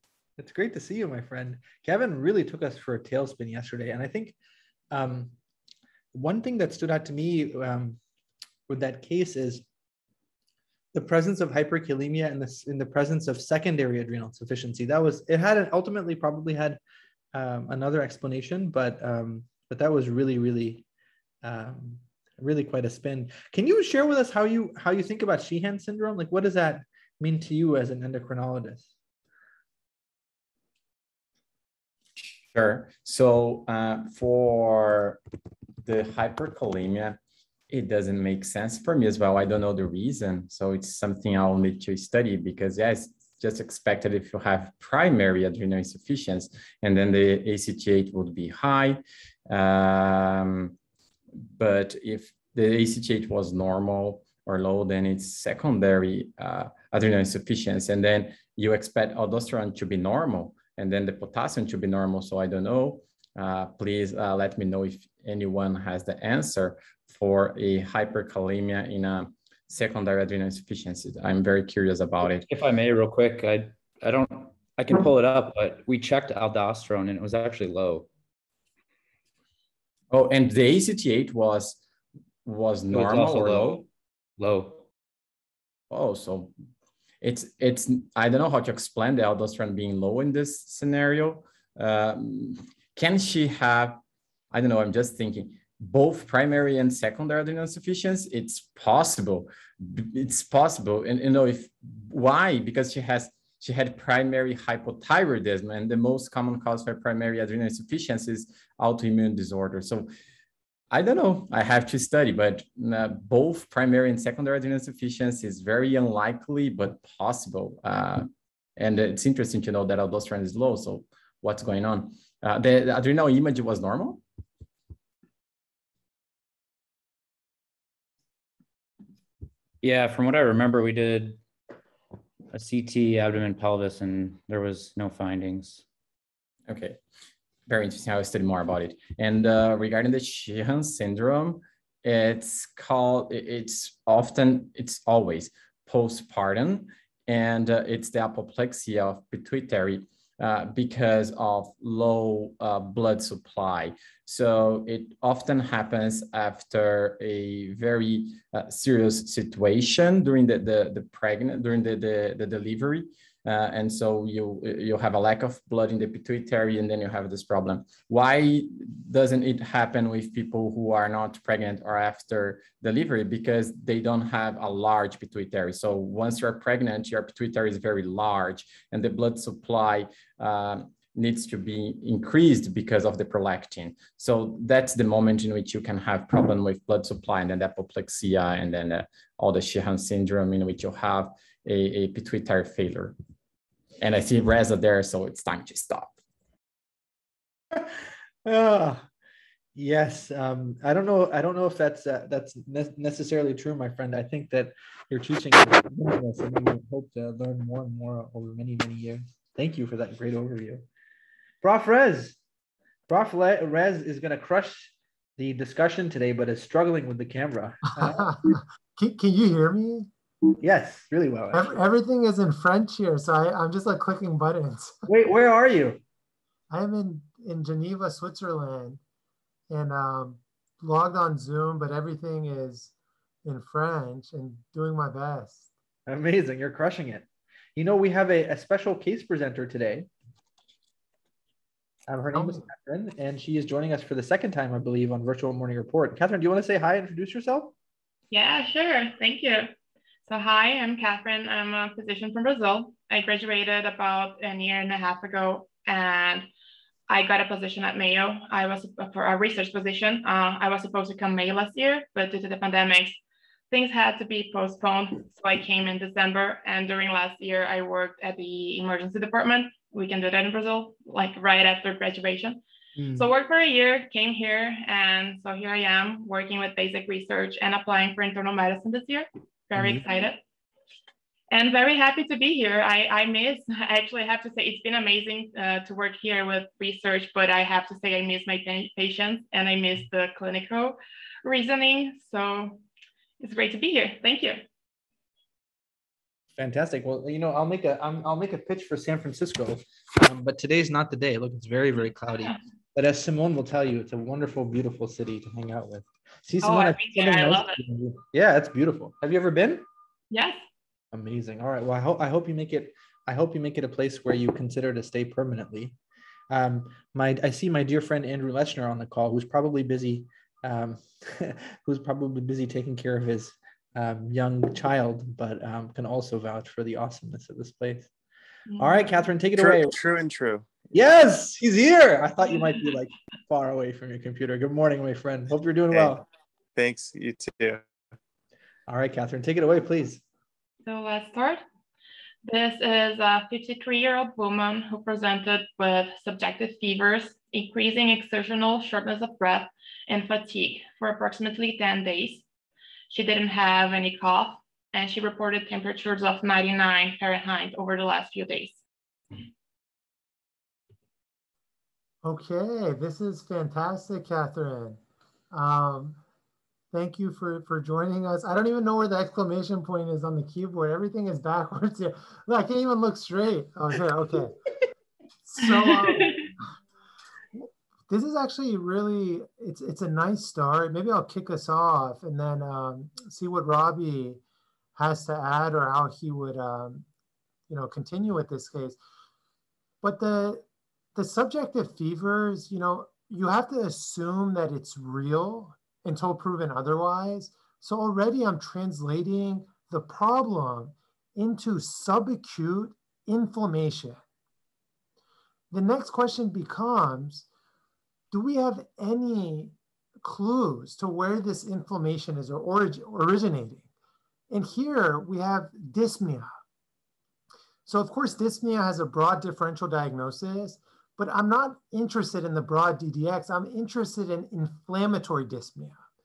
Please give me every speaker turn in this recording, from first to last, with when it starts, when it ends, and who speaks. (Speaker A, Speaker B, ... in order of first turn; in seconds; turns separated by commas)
Speaker A: 0.4-4.3, Speaker A: 4.9-5.3, Speaker A: 6.1-8.0, Speaker A: 8.7-9.6, Speaker A: 10.9-16.8, Speaker A: 17.3-20.8, Speaker A: 21.4-28.9, Speaker B: 32.5-35.2, Speaker B: 35.8-37.2, Speaker B: 37.7-50.8, Speaker B: 51.5-72.5, Speaker C: 72.4-78.1, Speaker B: 80.1-81.8, Speaker B: 82.4-83.8, Speaker C: 82.9-83.8, Speaker C: 84.4-84.8, Speaker B: 85.9-86.5, Speaker B: 87.2-94.0, Speaker B: 94.5-110.1, Speaker B: 110.9-124.2, Speaker C: 129.8-131.4, Speaker C: 132.5-135.8, Speaker B: 136.7-137.0, Speaker B: 137.7-193.2, Speaker B: 194.0-196.1, Speaker A: 198.4-199.0, Speaker A: 199.7-210.8, Speaker A: 211.6-212.4, Speaker A: 213.1-218.3, Speaker D: 218.0-220.1, Speaker A: 220.6-221.7, Speaker D: 221.5-225.0, Speaker A: 225.1-226.0, Speaker D: 226.7-229.0, Speaker D: 229.7-232.9, Speaker D: 233.4-235.7, Speaker A: 236.1-240.1, Speaker A: 242.1-247.7, Speaker D: 242.3-242.6, Speaker E: 248.3-249.7, Speaker E: 250.3-256.5, Speaker E: 257.1-263.2, Speaker E: 263.7-272.6, Speaker A: 273.0-273.3, Speaker E: 273.1-280.4, Speaker A: 279.8-280.0, Speaker E: 281.5-292.8, Speaker E: 293.4-294.6, Speaker A: 296.6-309.8, Speaker E: 306.6-307.8, Speaker E: 310.3-310.6, Speaker A: 311.1-315.9, Speaker A: 316.5-328.1, Speaker E: 328.7-329.2, Speaker A: 328.8-329.9, Speaker F: 329.6-330.7, Speaker A: 330.9-336.2, Speaker F: 335.9-336.2, Speaker F: 336.8-337.8, Speaker A: 338.9-340.2, Speaker E: 340.8-341.6, Speaker E: 342.4-352.4, Speaker E: 353.1-358.8, Speaker D: 362.2-365.0, Speaker D: 365.5-366.2, Speaker D: 366.9-374.6, Speaker D: 375.5-376.5, Speaker E: 376.2-376.4, Speaker D: 377.6-384.4, Speaker D: 384.9-387.0, Speaker D: 387.7-389.0, Speaker D: 390.0-404.2, Speaker D: 405.7-407.4, Speaker D: 408.3-413.9, Speaker D: 414.5-416.5, Speaker D: 417.9-426.0